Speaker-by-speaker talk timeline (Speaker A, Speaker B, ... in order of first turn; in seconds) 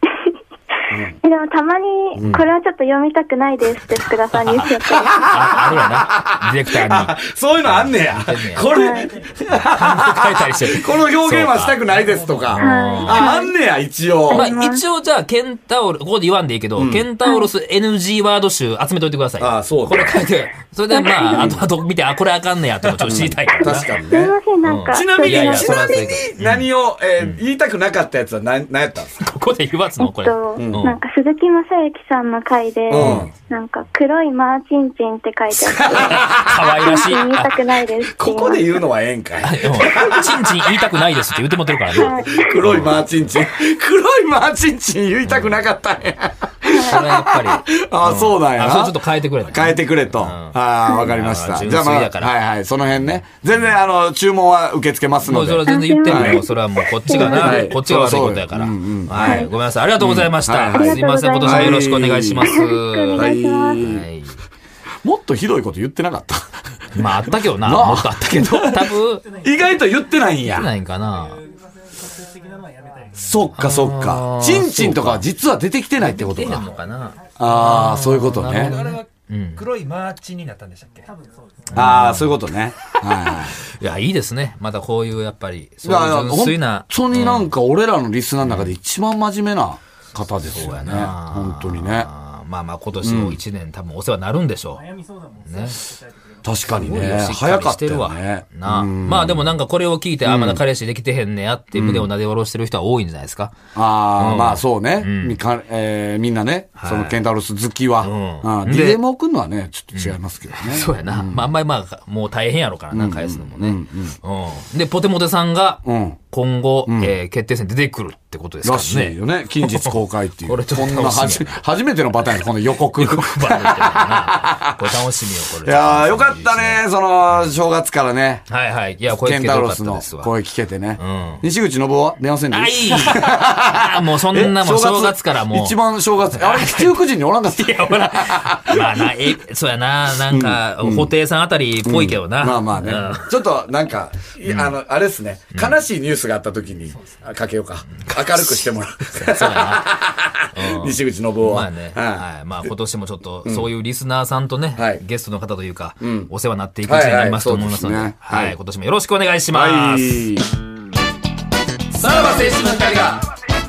Speaker A: 0.9-1.2, 2.1-2.5, 4.7-14.5, 16.8-17.1, 19.4-20.2, 21.3-21.7, 23.0-24.3, 24.9-29.2, 30.6-30.9, 32.9-33.3, 35.6-36.8, 38.1-41.0, 41.9-56.4, 57.1-59.5, 60.0-62.5, 63.1-64.0, 65.0-70.7, 73.1-76.7, 77.4-78.7, 81.7-83.6, 85.8-92.1, 93.0-93.4, 96.4-99.5, 100.2-100.6, 101.7-102.1, 103.7-111.5, 112.9-114.2, 115.8-116.2, 116.9-117.1, 118.6-124.9, 125.6-128.4, 129.1-139.0, 140.3-141.1, 141.8-152.2, 154.8-155.0, 156.0-156.3, 156.8-158.6, 159.5-160.5, 161.9-163.3
Speaker B: 1.2-5.3, 8.7-9.1, 12.6-13.5, 14.3-14.8, 20.9-21.6, 24.1-26.1, 30.0-38.8, 41.9-42.6, 46.7-47.0, 55.6-56.5, 57.0-57.7, 59.1-59.5, 60.7-61.9, 62.4-63.9
Speaker C: 4.4-4.7, 5.2-8.9, 9.5-13.3, 14.3-23.9, 24.6-27.4, 29.2-31.0, 32.9-33.3, 35.9-37.7, 39.4-43.0, 45.2-45.6, 46.7-52.3, 55.2-64.4, 67.0-69.2, 70.4-71.4, 73.6-75.2, 76.0-79.6, 81.7-82.4, 83.7-87.5, 88.4-88.7, 90.4-94.8, 95.5-95.8, 96.7-103.6, 104.2-105.4, 106.8-107.2, 108.0-109.0, 109.9-119.9, 120.4-121.6, 123.0-126.8, 128.5-130.3, 131.0-131.4, 132.5-135.8, 136.3-136.9, 137.5-143.4, 144.4-144.7, 148.0-149.9, 150.5-160.2
Speaker D: 69.2-73.6, 76.2-77.5, 81.0-81.8, 94.7-97.0
Speaker E: 78.5-81.1